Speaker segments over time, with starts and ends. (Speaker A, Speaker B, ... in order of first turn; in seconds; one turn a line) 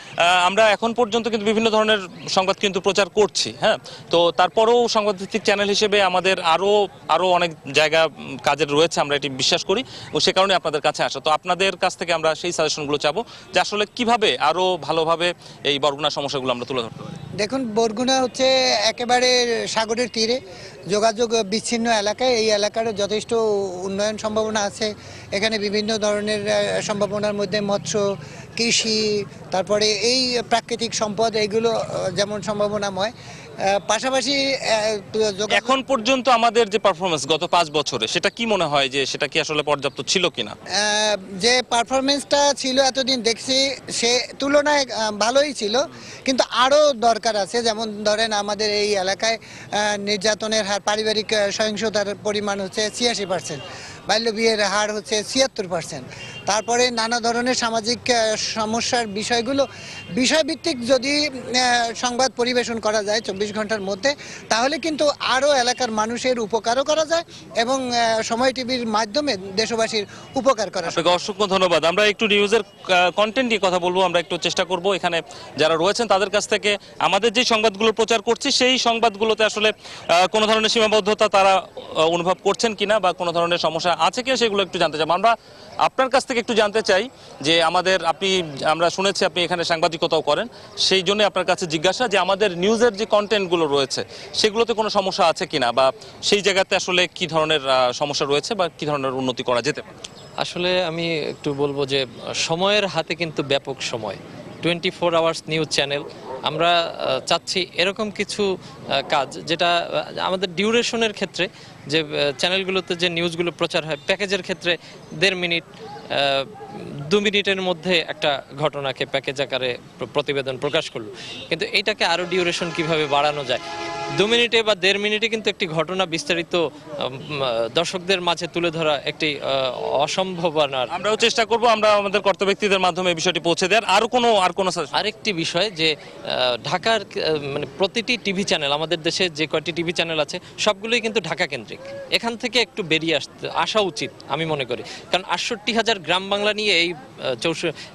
Speaker A: 0.3-17.2
Speaker B: 17.4-20.4
Speaker B: 20.9-28.0
Speaker B: 28.6-33.1
Speaker B: 33.7-35.8
Speaker A: 35.5-40.5
Speaker B: 40.8-71.1
Speaker A: 70.9-85.3
Speaker A: 85.9-99.8
Speaker C: 100.4-108.5
Speaker C: 109.1-115.6
Speaker C: 116.2-116.4
Speaker C: 117.1-123.6
Speaker C: 124.2-127.1
Speaker C: 127.8-129.3
Speaker C: 130.0-130.9
Speaker A: 130.9-134.9
Speaker C: 135.0-135.9
Speaker C: 136.7-147.7